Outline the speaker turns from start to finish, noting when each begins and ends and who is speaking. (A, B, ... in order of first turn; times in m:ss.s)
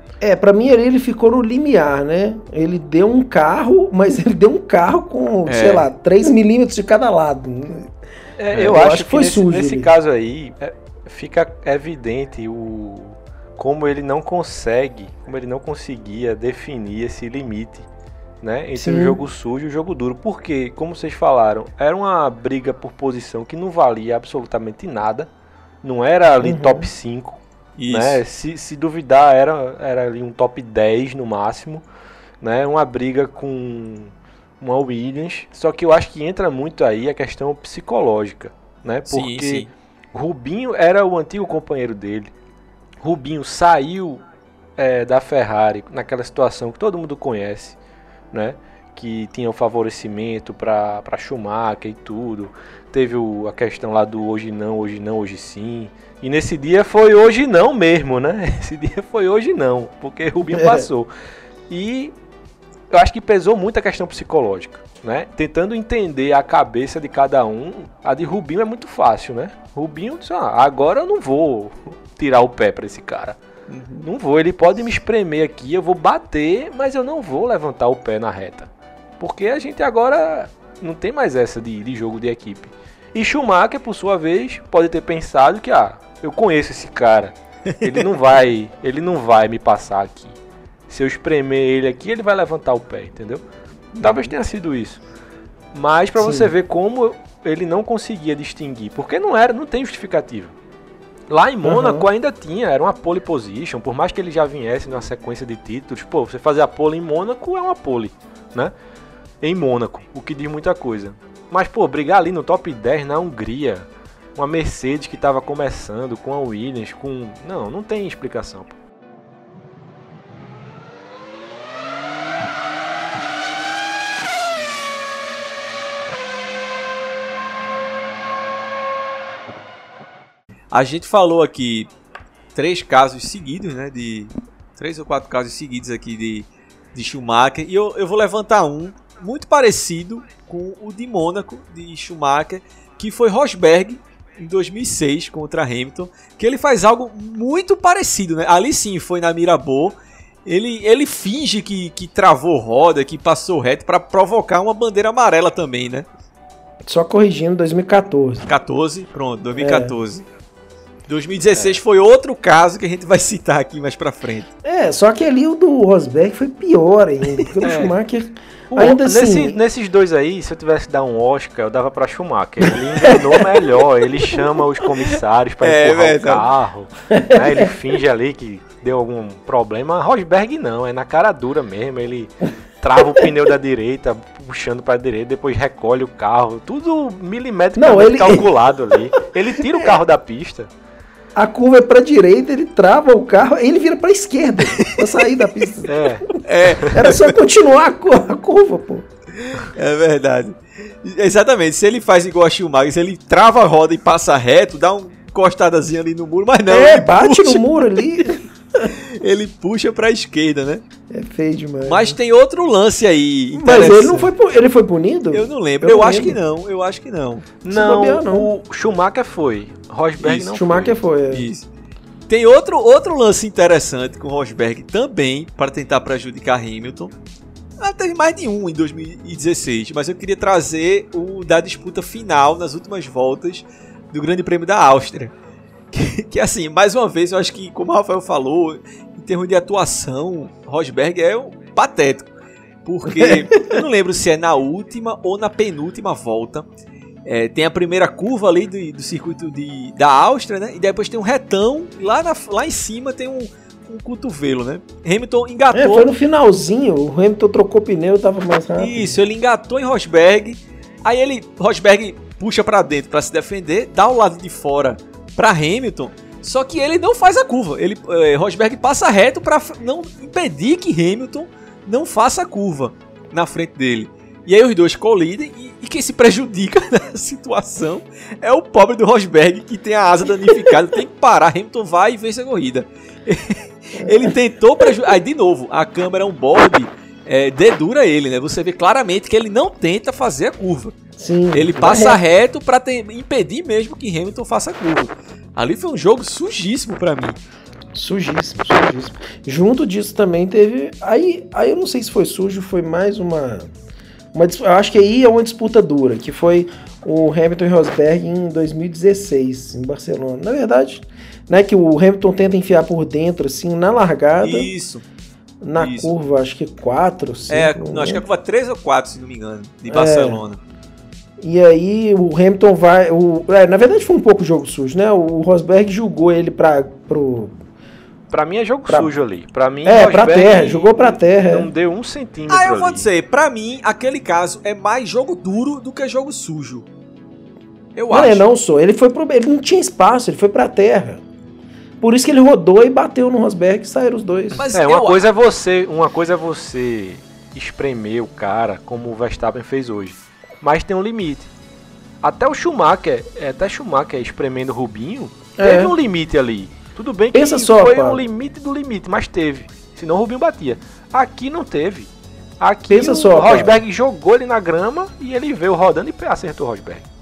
0:00.2-0:07.9 A
0:05.5-0:05.9 B
0:08.4-0:17.9 C
0:08.5-0:10.0 A
0:18.4-0:25.3 C
0:18.8-0:19.2 A
0:25.8-0:31.8 C
0:26.4-0:26.9 A
0:27.8-0:28.2 B
0:32.4-0:42.3 C
0:39.0-0:39.7 B
0:43.0-0:44.2 C
0:44.8-0:47.8 C
0:48.3-1:01.1 C
1:00.4-1:00.9 A
1:01.7-1:02.1 C
1:02.9-1:13.4 C
1:13.7-1:14.0 B
1:14.0-1:30.4 C
1:27.7-1:28.0 B
1:30.9-1:33.4 C
1:33.9-1:34.2 B
1:34.0-1:35.0 C
1:35.7-1:40.6 C
1:36.2-1:36.5 A
1:41.3-1:48.7 C
1:41.6-1:42.1 A
1:49.4-1:58.8 C
2:10.7-2:11.9 B
2:12.5-2:29.9 B
2:30.4-2:36.0 B
2:36.8-2:38.6 A
2:38.5-2:40.2 B
2:39.5-2:39.9 A
2:41.1-2:44.5 B
2:44.6-2:49.6 A
2:47.6-2:47.9 C
2:48.7-3:10.7 C
2:53.0-2:53.4 A
2:55.6-2:56.5 B
2:57.1-2:57.7 A
3:07.8-3:08.5 A
3:09.6-3:10.0 A
3:11.3-3:19.1 A
3:14.8-3:15.1 B
3:15.8-3:16.3 C
3:16.3-3:17.4 B
3:19.4-3:28.0 B
3:26.7-3:28.9 A
3:28.8-3:30.8 B
3:31.1-3:32.2 A
3:31.8-3:34.3 B
3:33.5-3:36.4 A
3:35.3-3:37.5 B
3:37.6-3:40.9 C
3:37.7-3:38.5 A
3:40.2-3:40.6 B
3:40.5-3:41.5 A
3:41.3-3:41.6 B
3:42.3-3:47.1 B
3:47.8-3:55.3 B
3:55.9-4:02.3 B
4:02.8-4:06.6 B
4:03.1-4:03.8 A
4:07.2-4:16.1 B
4:15.7-4:19.2 A
4:18.8-4:51.0 B
4:44.0-4:44.3 A
4:51.2-4:52.2 A
4:51.5-4:57.4 B
4:57.9-5:03.7 A
5:04.3-5:14.7 A
5:14.4-5:15.0 B
5:15.6-5:18.2 A
5:15.8-5:16.1 B
5:17.5-5:20.6 B
5:19.9-5:20.4 A
5:21.4-5:27.6 A
5:28.3-5:33.1 C
5:29.8-5:31.7 A
5:32.5-5:36.8 B
5:38.0-5:38.4 B
5:38.1-5:41.2 A
5:42.0-5:44.6 A
5:44.5-5:45.2 B
5:44.7-5:51.5 C
5:52.2-6:07.0 C
5:55.6-5:55.9 A
5:57.3-5:58.2 A
6:02.9-6:03.8 A